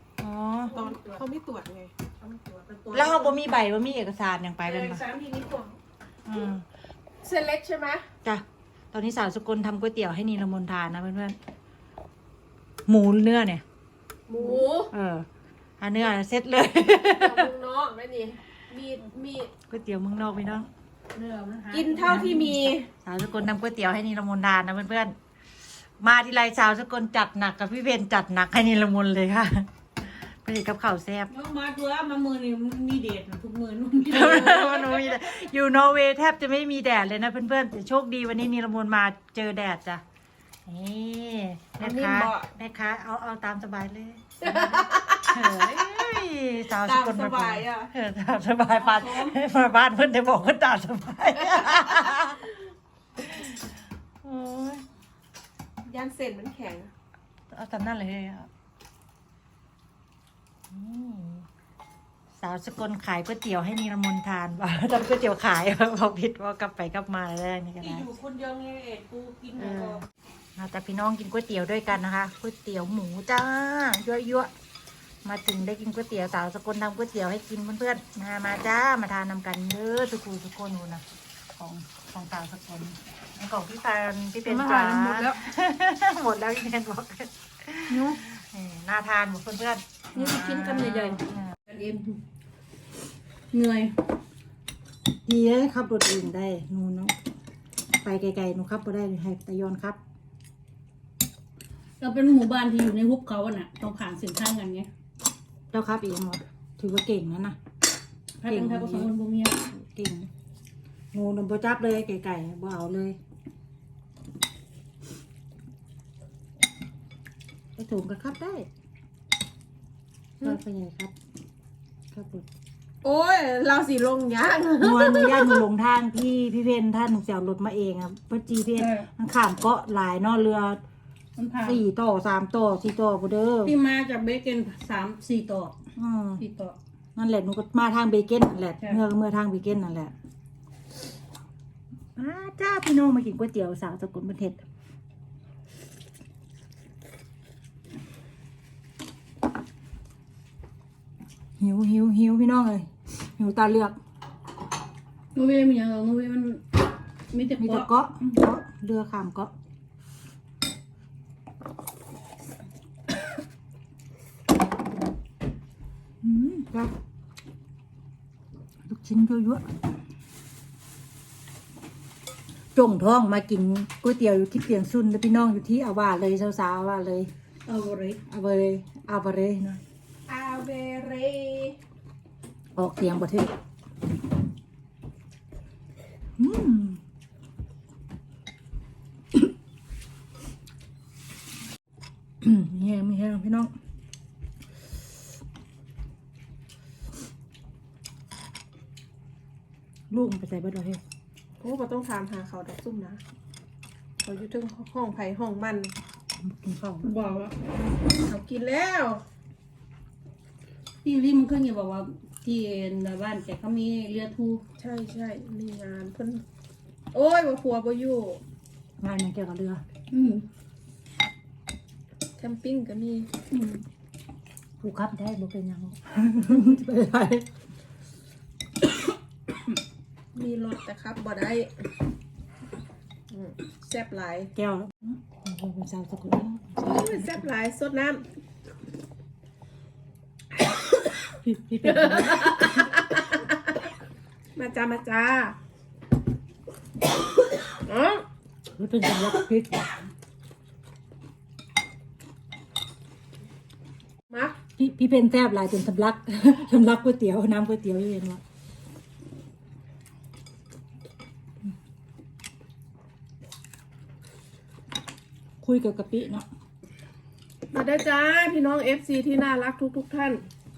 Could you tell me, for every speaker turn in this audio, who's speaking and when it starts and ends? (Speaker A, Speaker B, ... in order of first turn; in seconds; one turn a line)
Speaker A: 0.2-0.8
Speaker B: 0.7-1.2
Speaker C: 0.7-1.9
Speaker B: 2.2-3.3
Speaker A: 2.9-5.0
Speaker B: 4.7-5.7
Speaker C: 4.9-5.5
Speaker A: 6.2-6.6
Speaker C: 7.2-8.0
Speaker A: 8.2-11.4
Speaker A: 12.8-13.6
Speaker C: 14.3-14.9
Speaker A: 14.4-15.3
Speaker A: 15.8-17.5
Speaker C: 17.1-19.5
Speaker A: 19.7-20.7
Speaker B: 21.1-22.5
Speaker C: 21.7-22.9
Speaker A: 22.1-25.1
Speaker A: 26.0-29.7
Speaker A: 30.4-31.3
Speaker B: 31.3-34.9
Speaker C: 34.1-34.8
Speaker A: 34.1-40.0
Speaker A: 40.6-52.4
Speaker C: 41.8-42.5
Speaker C: 44.4-45.7
Speaker C: 46.8-47.9
Speaker C: 48.8-49.3
Speaker C: 51.7-52.1
Speaker A: 53.2-53.6
Speaker A: 54.2-54.8
Speaker C: 55.8-56.9
Speaker A: 57.5-58.5
Speaker A: 60.7-61.5
Speaker A: 62.4-68.0
Speaker B: 67.8-70.0
Speaker C: 69.6-70.0
Speaker A: 70.6-74.5
Speaker A: 75.2-81.0
Speaker A: 81.6-91.5
Speaker C: 84.5-85.3
Speaker B: 84.6-85.3
Speaker C: 90.2-91.1
Speaker B: 90.2-91.2
Speaker B: 91.7-92.2
Speaker B: 93.5-94.0
Speaker A: 95.2-97.1
Speaker A: 98.0-100.0
Speaker B: 102.0-104.9
Speaker A: 105.7-107.6
Speaker B: 108.4-109.7
Speaker A: 108.5-109.1
Speaker A: 109.7-110.3
Speaker A: 111.1-113.2
Speaker A: 117.8-118.7
Speaker A: 120.4-121.1
Speaker A: 122.1-122.5
Speaker C: 123.0-125.6
Speaker A: 124.8-130.8
Speaker B: 128.8-129.1
Speaker B: 131.3-131.8
Speaker A: 131.6-133.7
Speaker B: 133.6-135.8
Speaker A: 135.9-136.4
Speaker B: 136.4-136.8
Speaker A: 137.2-140.1
Speaker A: 142.2-144.6
Speaker A: 151.6-154.0
Speaker B: 155.3-157.9
Speaker A: 157.6-159.5
Speaker A: 166.2-166.9
Speaker A: 168.8-169.6
Speaker A: 172.7-177.3
Speaker B: 177.7-178.2
Speaker A: 178.3-179.8
Speaker C: 180.3-181.8
Speaker A: 182.8-183.5
Speaker A: 186.4-187.0
Speaker A: 192.4-193.7
Speaker A: 200.1-201.0
Speaker C: 201.6-203.2
Speaker C: 204.2-205.9
Speaker A: 206.4-207.1
Speaker B: 207.1-207.5
Speaker C: 208.1-209.2
Speaker B: 211.0-214.6
Speaker C: 214.8-216.4
Speaker C: 217.1-218.4
Speaker A: 219.0-219.8
Speaker B: 220.1-220.4
Speaker C: 222.4-223.3
Speaker B: 223.5-223.8
Speaker A: 224.8-227.4
Speaker C: 230.3-231.7
Speaker C: 233.3-234.5
Speaker A: 234.5-237.4
Speaker C: 236.8-238.2
Speaker A: 241.4-242.9
Speaker C: 241.8-243.6
Speaker C: 244.6-245.6
Speaker C: 247.8-248.2
Speaker A: 248.7-249.9
Speaker C: 254.3-254.6
Speaker A: 254.8-258.4
Speaker A: 265.6-266.4
Speaker C: 267.7-270.4